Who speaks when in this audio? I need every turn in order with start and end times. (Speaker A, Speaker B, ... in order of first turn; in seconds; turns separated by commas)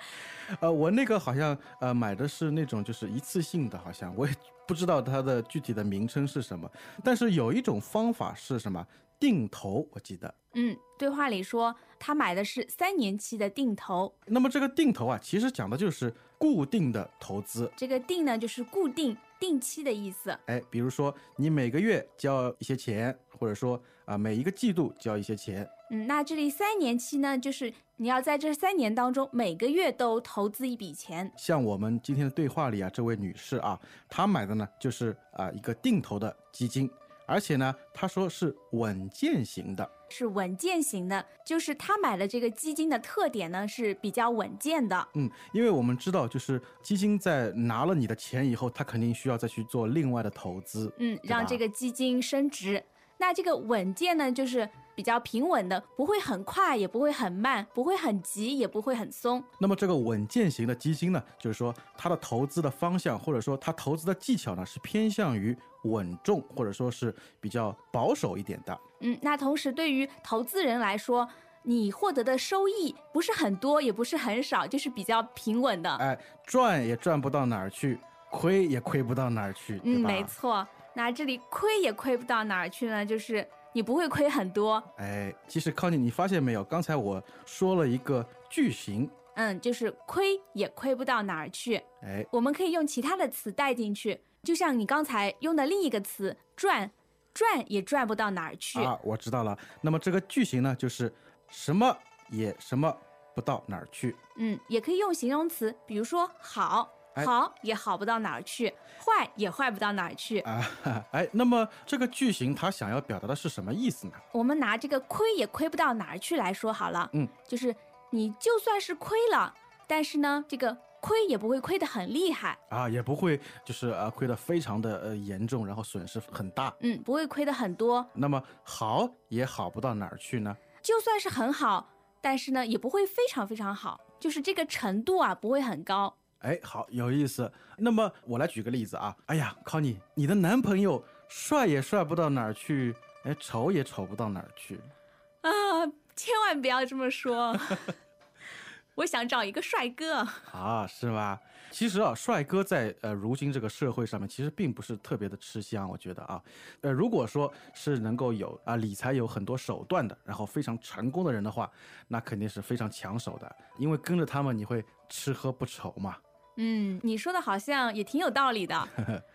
Speaker A: 0.5-10.3, Speaker B: 10.5-14.1, Speaker A: 14.3-17.7, Speaker B: 17.8-20.4, Speaker A: 20.5-25.7, Speaker B: 25.9-31.3, Speaker A: 31.4-39.9, Speaker B: 40.1-45.1, Speaker A: 45.1-51.6, Speaker B: 51.0-59.5, Speaker A: 59.6-68.8, Speaker B: 69.0-76.0, Speaker A: 76.0-80.3, Speaker B: 79.8-84.9, Speaker A: 85.0-89.1, Speaker B: 89.3-98.9, Speaker A: 92.0-92.3, Speaker A: 98.7-104.2, Speaker B: 104.3-110.5, Speaker A: 110.4-114.2, Speaker B: 114.3-122.6, Speaker A: 122.7-126.8, Speaker B: 126.8-128.1, Speaker A: 128.1-130.6, Speaker B: 130.8-136.1, Speaker A: 136.4-144.9, Speaker B: 145.4-147.9, Speaker B: 148.9-150.4, Speaker A: 150.5-166.2, Speaker B: 166.6-168.9